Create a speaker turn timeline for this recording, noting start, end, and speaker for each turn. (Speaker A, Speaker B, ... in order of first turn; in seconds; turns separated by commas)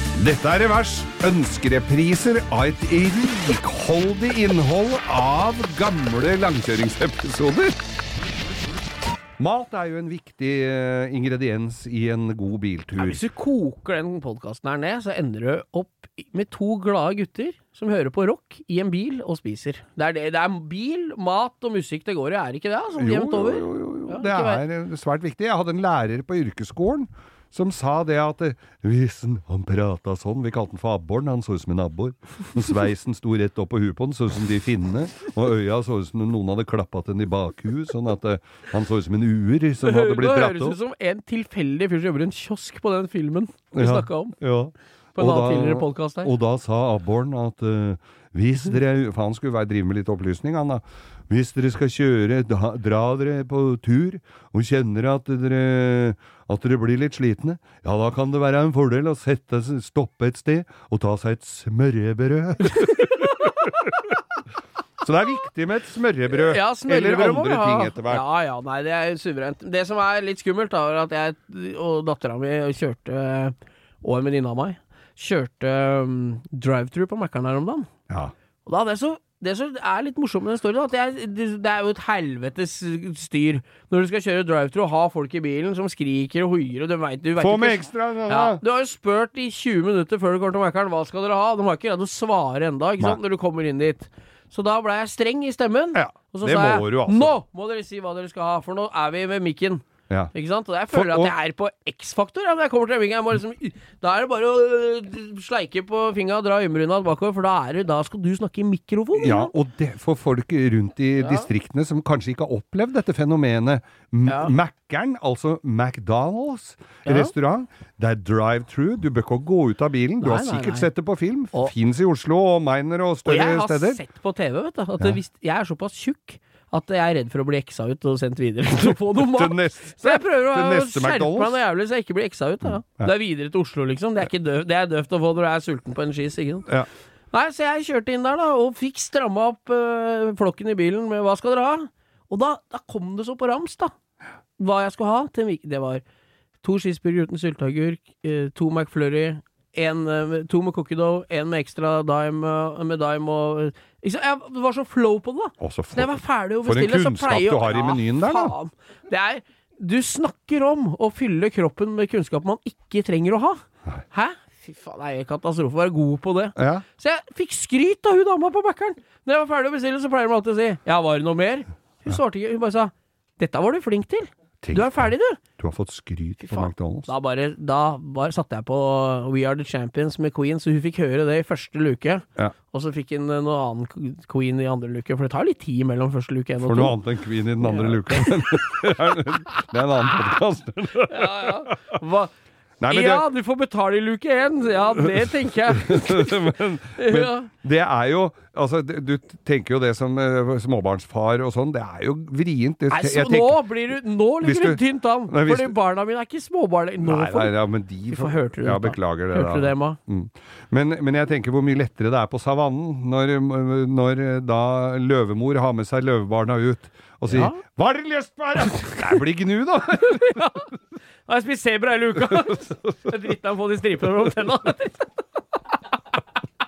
Speaker A: 0.2-7.7, Speaker A: 9.4-13.2, Speaker B: 13.0-24.6, Speaker A: 23.0-40.8, Speaker B: 39.8-44.4, Speaker A: 43.8-63.9, Speaker B: 45.2-46.3, Speaker A: 65.0-68.2, Speaker B: 66.3-77.9, Speaker B: 78.7-109.5, Speaker A: 87.4-88.6, Speaker A: 95.9-97.4, Speaker A: 100.9-101.3, Speaker A: 109.2-124.0, Speaker B: 111.2-111.5, Speaker B: 114.3-114.5, Speaker B: 117.1-117.3, Speaker B: 120.2-120.9, Speaker B: 123.3-136.7, Speaker A: 129.2-131.6, Speaker B: 137.3-143.9, Speaker B: 144.6-146.0, Speaker B: 146.6-175.4, Speaker A: 155.6-158.5, Speaker A: 166.6-166.8, Speaker A: 174.6-177.1, Speaker B: 176.4-187.0, Speaker A: 186.6-191.8, Speaker B: 187.6-188.8, Speaker B: 191.1-192.3, Speaker A: 192.8-193.3, Speaker B: 192.9-197.5, Speaker A: 195.2-203.7, Speaker B: 202.9-207.5, Speaker A: 204.4-205.7, Speaker A: 207.0-220.4, Speaker B: 208.1-210.0, Speaker B: 217.3-217.6, Speaker B: 218.8-219.1, Speaker B: 220.1-220.7, Speaker B: 221.3-225.2